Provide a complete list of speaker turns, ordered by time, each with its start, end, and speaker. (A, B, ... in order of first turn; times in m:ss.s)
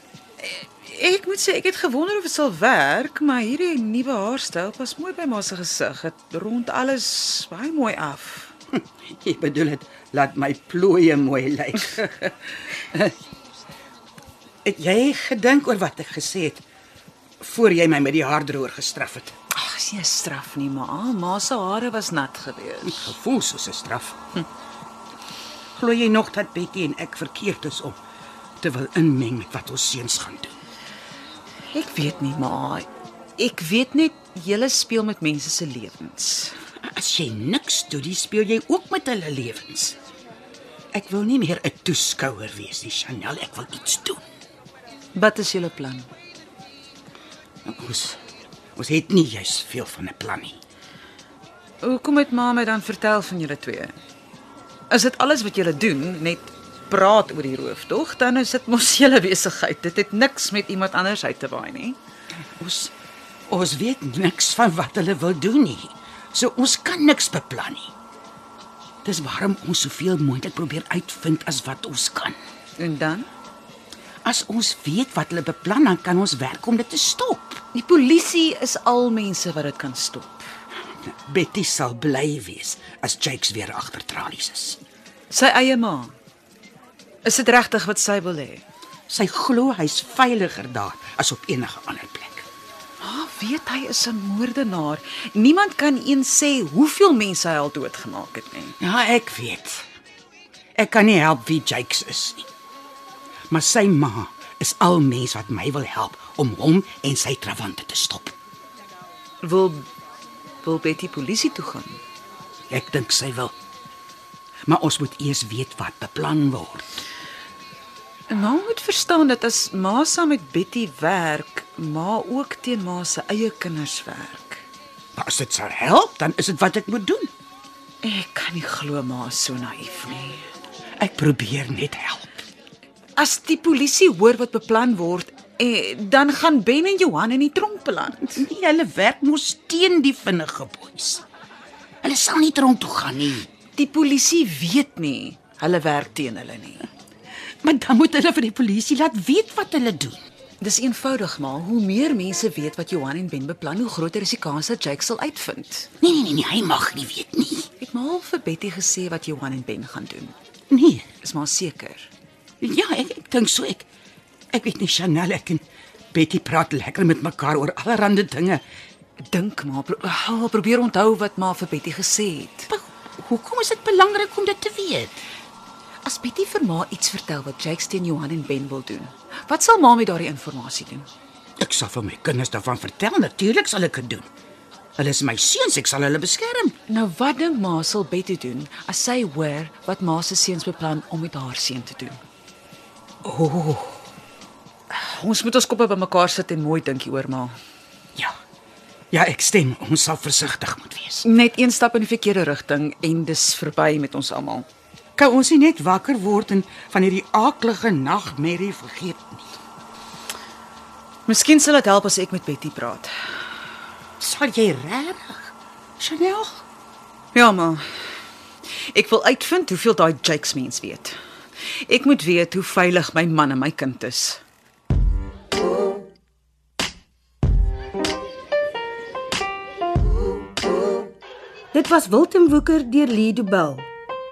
0:00.4-0:08.5 A
0:08.8-0:13.1 B
0:14.6-0:16.6 B
0:17.4-0:19.3 B
0:19.5-0:23.1 A
0:22.9-0:24.2 B
0:25.8-0:28.0 B
0:28.6-0:30.5 B
0:31.7-0:36.6 A
0:36.8-0:40.0 B
0:40.9-0:44.2 B
0:45.1-0:46.1 A
0:47.7-0:48.2 B
0:48.8-0:50.6 B
0:51.8-0:53.9 A
0:54.9-1:02.0 A
1:02.6-1:02.9 B
1:03.5-1:07.9 B
1:09.0-1:12.4 B
1:12.8-1:13.3 A
1:14.2-1:17.6 B
1:17.7-1:20.5 A
1:21.1-1:24.8 B
1:25.3-1:26.1 A
1:27.2-1:28.6 A
1:29.1-1:32.5 B
1:33.0-1:38.8 A
1:38.8-1:39.8 B
1:40.8-1:42.5 B
1:43.5-1:48.4 B
1:49.4-1:49.9 A
1:50.6-1:52.0 A
1:52.7-1:53.5 B
1:54.7-1:57.0 B
1:58.3-2:04.6 A
2:05.2-2:07.3 B
2:08.0-2:10.4 A
2:11.0-2:12.4 B
2:13.2-2:18.4 A
2:18.3-2:21.2 B
2:22.0-2:23.5 B
2:23.8-2:26.9 A
2:27.6-2:30.2 B
2:30.6-2:35.9 A
2:36.0-2:37.7 B
2:37.8-2:40.4 A
2:40.7-2:41.1 B
2:41.2-2:42.1 A
2:42.6-2:43.9 B
2:44.5-2:48.6 B
2:49.3-2:52.7 A
2:52.7-2:55.2 B
2:56.0-3:01.1 A
3:01.6-3:04.3 B
3:05.0-3:06.7 B
3:06.9-3:12.2 A
3:13.2-3:14.0 B
3:14.9-3:17.6 A
3:19.1-3:21.2 B
3:21.2-3:24.7 A
3:25.2-3:29.5 B
3:31.3-3:33.1 A
3:34.2-3:36.6 B
3:37.3-3:37.8 A
3:38.9-3:41.2 A
3:41.9-3:44.4 A
3:51.7-3:53.9 C